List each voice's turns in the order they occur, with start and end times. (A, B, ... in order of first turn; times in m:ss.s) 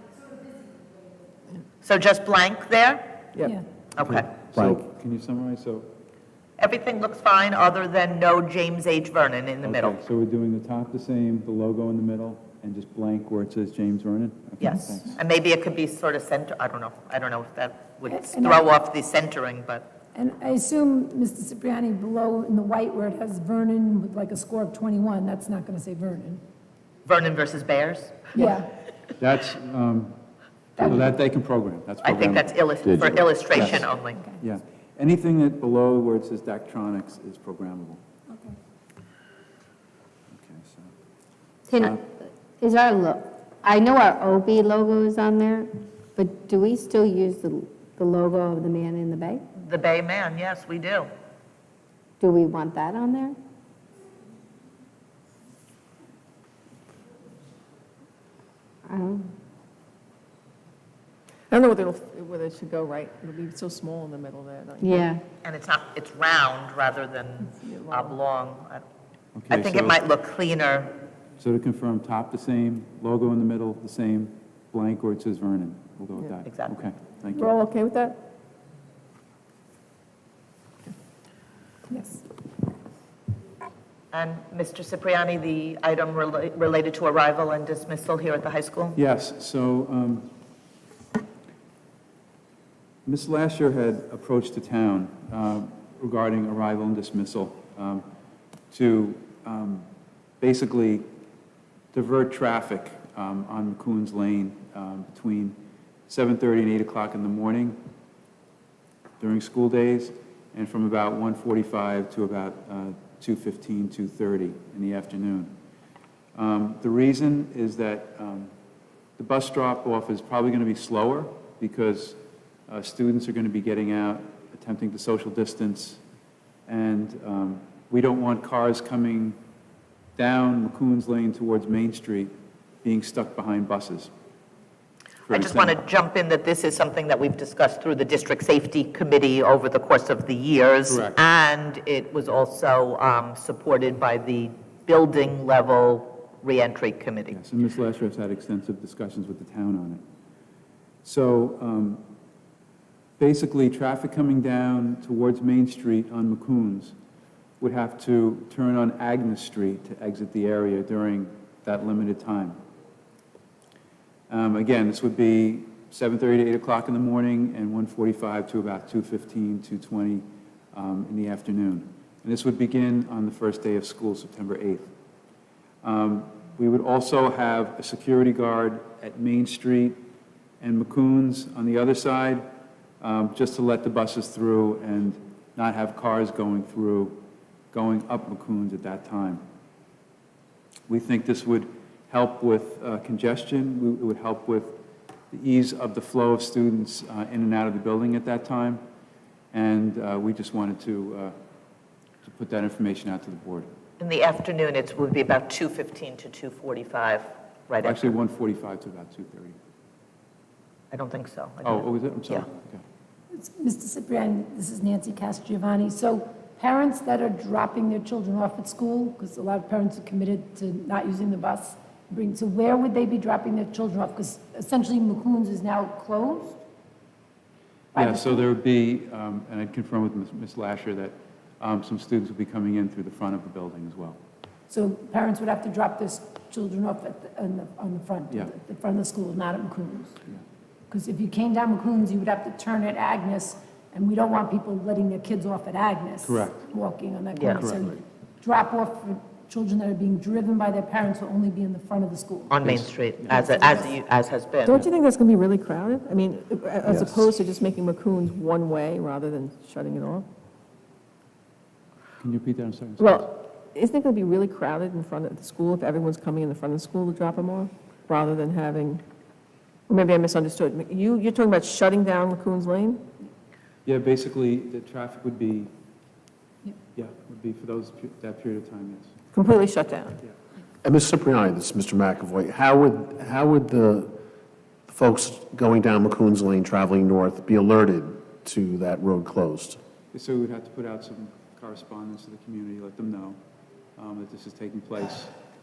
0:01.8-0:03.1 A
0:04.0-0:04.3 A
0:04.1-0:04.8 B
0:04.5-0:05.9 C
0:06.6-0:10.0 A
0:09.6-0:15.2 C
0:14.6-0:19.9 A
0:18.1-0:18.7 D
0:20.1-0:26.4 D
0:27.1-0:28.5 A
0:28.3-0:28.7 D
0:29.2-0:30.2 C
0:30.8-0:31.1 D
0:30.8-0:32.9 C
0:32.0-0:34.2 A
0:33.3-0:34.4 D
0:33.5-0:33.9 C
0:34.4-0:38.0 C
0:40.3-0:40.9 C
0:41.7-0:49.4 E
0:49.6-0:51.1 A
0:52.2-0:53.4 E
0:58.9-0:59.3 E
1:01.5-1:05.2 F
1:04.8-1:05.2 E
1:05.4-1:08.8 A
1:07.5-1:08.2 F
1:09.4-1:10.0 C
1:09.5-1:11.0 A
1:11.4-1:17.5 C
1:16.5-1:16.8 A
1:17.3-1:18.2 F
1:21.9-1:22.2 D
1:24.1-1:29.0 A
1:29.0-1:30.3 C
1:33.1-1:38.0 C
1:38.7-1:39.9 C
1:40.4-1:41.0 C
1:41.9-1:45.6 C
1:46.1-1:47.8 C
1:49.2-1:55.5 C
1:56.4-1:58.5 C
1:59.2-2:06.0 C
2:06.7-2:09.4 C
2:10.2-2:12.3 C
2:12.8-2:14.1 C
2:15.3-2:15.8 C
2:15.3-2:27.4 A
2:20.9-2:21.2 C
2:27.3-2:30.0 C
2:31.0-2:32.0 C
2:33.2-2:37.0 C
2:37.6-2:42.6 C
2:44.3-2:54.9 C
2:55.8-3:00.0 C
3:00.6-3:02.5 C
3:03.0-3:07.2 C
3:07.7-3:09.4 C
3:10.9-3:14.8 C
3:15.3-3:18.8 C
3:19.5-3:21.4 C
3:22.2-3:23.7 C
3:24.0-3:28.1 A
3:27.8-3:29.6 C
3:30.9-3:32.5 A
3:31.6-3:32.8 C
3:33.3-3:46.6 D
3:47.9-3:48.5 D
3:47.9-3:54.2 C
3:54.7-4:00.2 D
4:00.9-4:12.7 D
4:06.2-4:06.7 C
4:07.4-4:07.6 A
4:07.5-4:07.9 C
4:12.5-4:14.8 A
4:12.6-4:13.4 C
4:13.3-4:13.9 D
4:14.6-4:20.3 F
4:22.2-4:23.2 C
4:23.0-4:29.0 F
4:29.9-4:33.1 F
4:33.8-4:35.7 C
4:37.0-4:39.1 C
4:39.3-4:40.2 F
4:40.8-4:44.1 B
4:44.9-4:49.8 B
4:50.1-4:53.4 C
4:54.0-4:55.3 C